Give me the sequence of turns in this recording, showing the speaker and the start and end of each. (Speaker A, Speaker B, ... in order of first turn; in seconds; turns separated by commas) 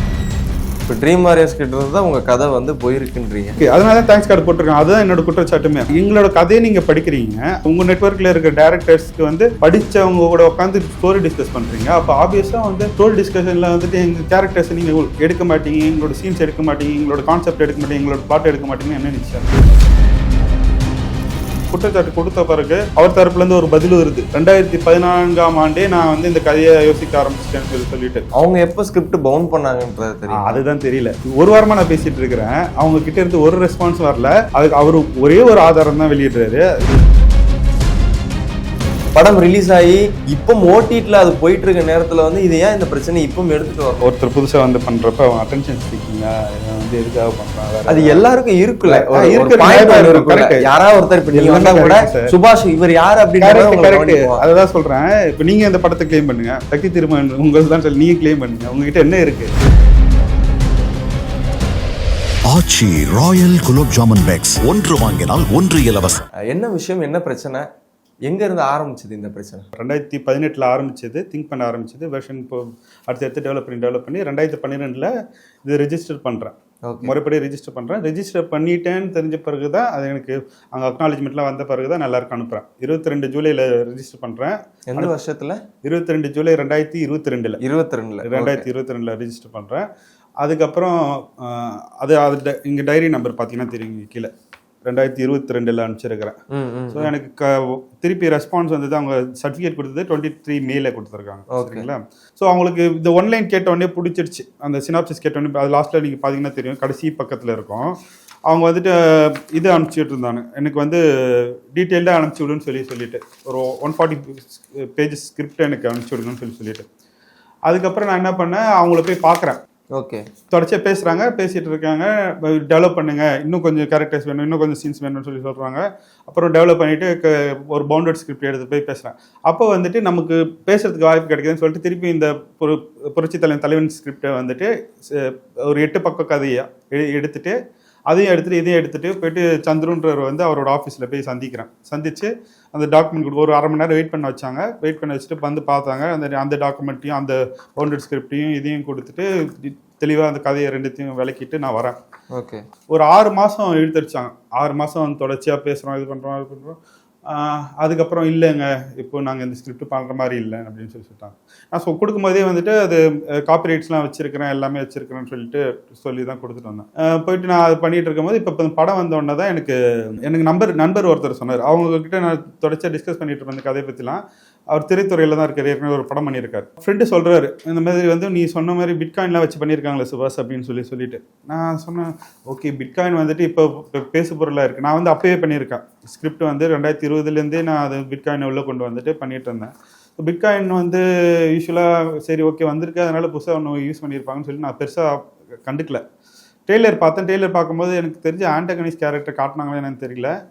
Speaker A: 0.9-3.6, Speaker B: 3.6-19.8, Speaker B: 21.7-28.2, Speaker A: 28.4-30.6, Speaker B: 30.4-37.0, Speaker A: 39.1-44.1, Speaker B: 44.0-48.2, Speaker A: 47.9-54.4, Speaker B: 48.9-50.6, Speaker B: 51.3-52.3, Speaker B: 53.4-59.5, Speaker C: 62.5-66.2, Speaker A: 66.5-67.6, Speaker A: 68.3-69.6, Speaker B: 69.8-75.1, Speaker B: 75.6-85.1, Speaker A: 76.8-77.1, Speaker A: 84.9-85.6, Speaker B: 85.8-87.6, Speaker A: 87.6-88.6, Speaker B: 88.2-89.8, Speaker B: 90.4-94.3, Speaker B: 94.8-96.4, Speaker A: 96.5-97.1, Speaker B: 96.9-107.9, Speaker A: 101.5-101.9, Speaker B: 108.5-116.8, Speaker B: 117.7-119.6, Speaker A: 119.9-120.2, Speaker B: 120.5-137.6, Speaker B: 138.1-152.0, Speaker A: 152.3-152.6, Speaker B: 152.9-196.0, Speaker B: 196.7-200.3